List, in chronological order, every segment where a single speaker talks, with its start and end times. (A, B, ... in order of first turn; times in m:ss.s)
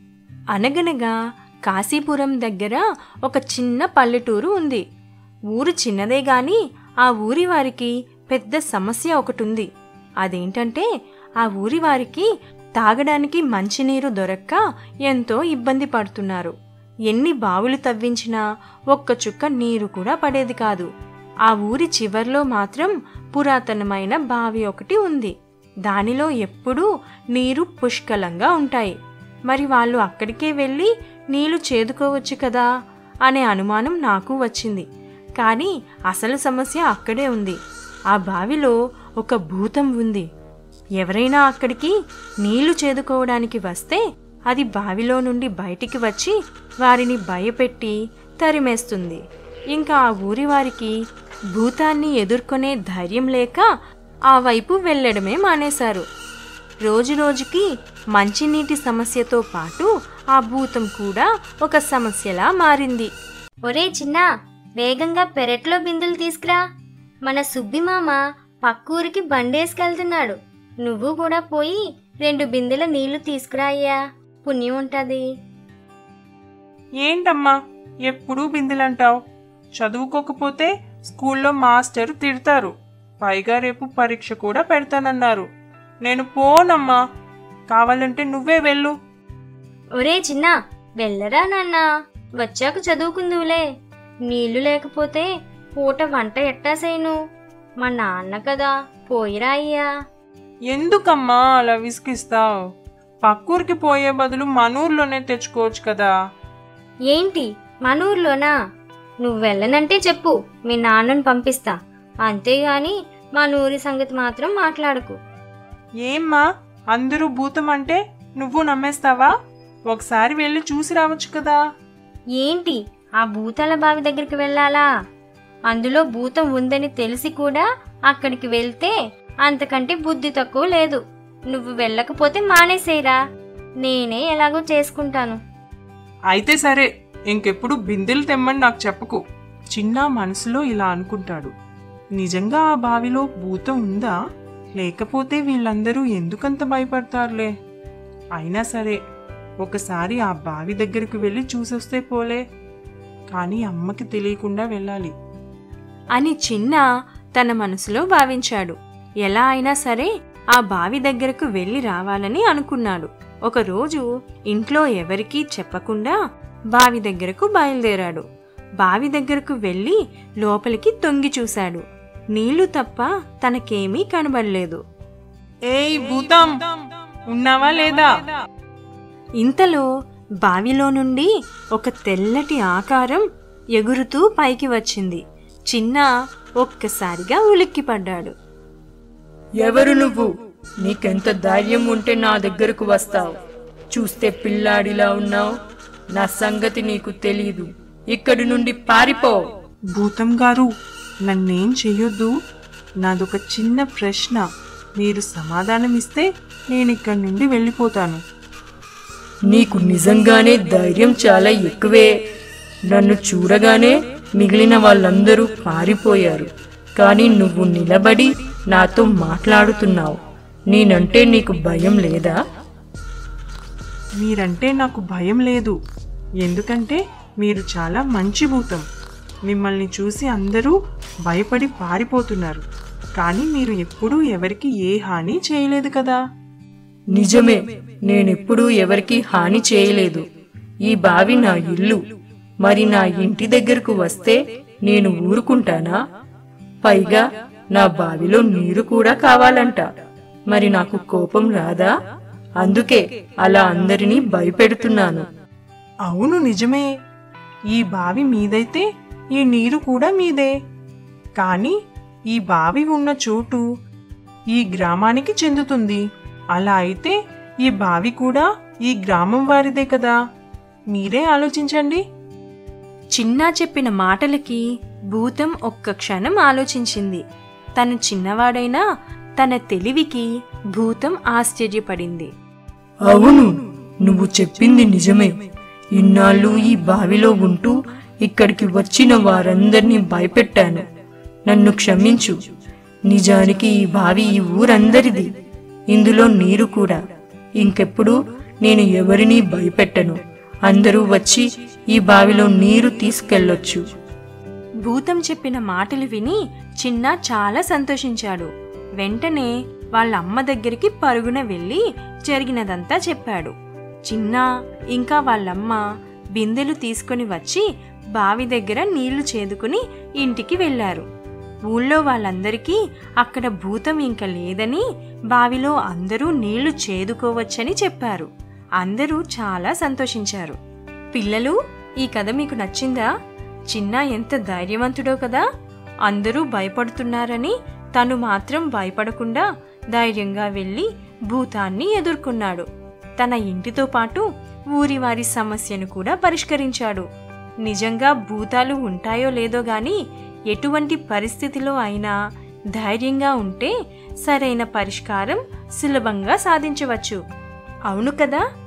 0:00.5-0:01.1 A
0:01.7-0:04.8 A
0:05.5-0:09.7 A
0:10.2-0:10.9 A
0:11.4-0:16.5 A
0:17.1-0:20.9 A
0:21.5-0:25.3 A
0:25.9-0:29.0 A
0:29.5-0:32.7 A
0:33.3-0:34.9 A
0:35.4-0:37.6 A
0:38.1-0:40.3 A
0:41.0-0:49.2 A
0:49.7-0:51.0 A
0:51.5-0:53.7 A
0:54.3-0:56.0 A
0:56.8-1:03.1 A
1:03.7-1:04.3 B
1:04.8-1:06.6 B
1:07.3-1:15.2 B
1:17.0-1:19.2 C
1:19.8-1:25.5 C
1:26.0-1:27.0 C
1:27.7-1:29.0 C
1:30.0-1:31.9 B
1:32.4-1:33.6 B
1:34.3-1:37.2 B
1:37.8-1:39.9 B
1:40.7-1:42.6 C
1:43.2-1:46.1 C
1:47.1-1:48.5 B
1:49.2-1:55.2 B
1:56.0-1:59.3 C
1:59.9-2:01.6 C
2:02.4-2:04.9 B
2:05.7-2:13.2 B
2:13.8-2:15.4 B
2:16.3-2:19.2 C
2:19.7-2:21.5 C
2:22.2-2:24.2 C
2:24.8-2:27.5 C
2:28.4-2:29.0 C
2:29.6-2:32.4 C
2:33.3-2:35.1 C
2:36.1-2:46.2 A
2:46.7-2:48.3 A
2:48.8-2:54.8 A
2:55.7-2:56.6 C
2:57.3-2:58.3 C
2:59.4-2:59.9 A
3:00.4-3:06.1 A
3:06.6-3:08.3 A
3:09.6-3:10.3 D
3:10.8-3:13.4 D
3:13.9-3:15.5 D
3:16.1-3:19.5 D
3:19.9-3:20.7 C
3:21.3-3:22.3 C
3:23.0-3:24.4 C
3:25.0-3:28.2 C
3:29.5-3:32.1 D
3:32.9-3:40.2 D
3:40.7-3:42.4 D
3:44.2-3:45.8 C
3:46.4-3:48.8 C
3:49.5-3:50.8 C
3:51.3-3:52.6 C
3:53.2-3:56.2 C
3:57.1-4:00.2 D
4:00.9-4:02.0 D
4:02.6-4:06.0 D
4:06.8-4:09.9 D
4:10.5-4:11.9 D
4:12.6-4:15.3 D
4:16.1-4:16.9 C
4:17.7-4:20.5 C
4:21.4-4:21.8 C
4:22.3-4:23.6 C
4:24.5-4:26.0 C
4:26.5-4:30.2 C
4:30.9-4:32.0 C
4:33.1-4:37.2 A
4:37.8-4:38.8 A
4:39.4-4:42.3 A
4:43.1-4:45.3 D
4:45.9-4:50.8 D
4:51.5-4:52.4 D
4:53.1-4:55.3 D
4:55.9-4:57.0 D
4:57.6-5:03.8 D
5:04.8-5:13.5 A
5:14.0-5:15.8 A
5:16.3-5:17.6 A
5:18.2-5:21.1 A
5:21.7-5:28.3 A
5:28.8-5:30.6 A
5:31.1-5:33.1 A
5:33.7-5:35.5 A
5:36.0-5:42.7 A
5:43.2-5:47.1 A
5:47.6-5:50.0 A
5:50.5-5:52.2 A
5:52.7-5:57.2 A
5:57.9-5:58.4 A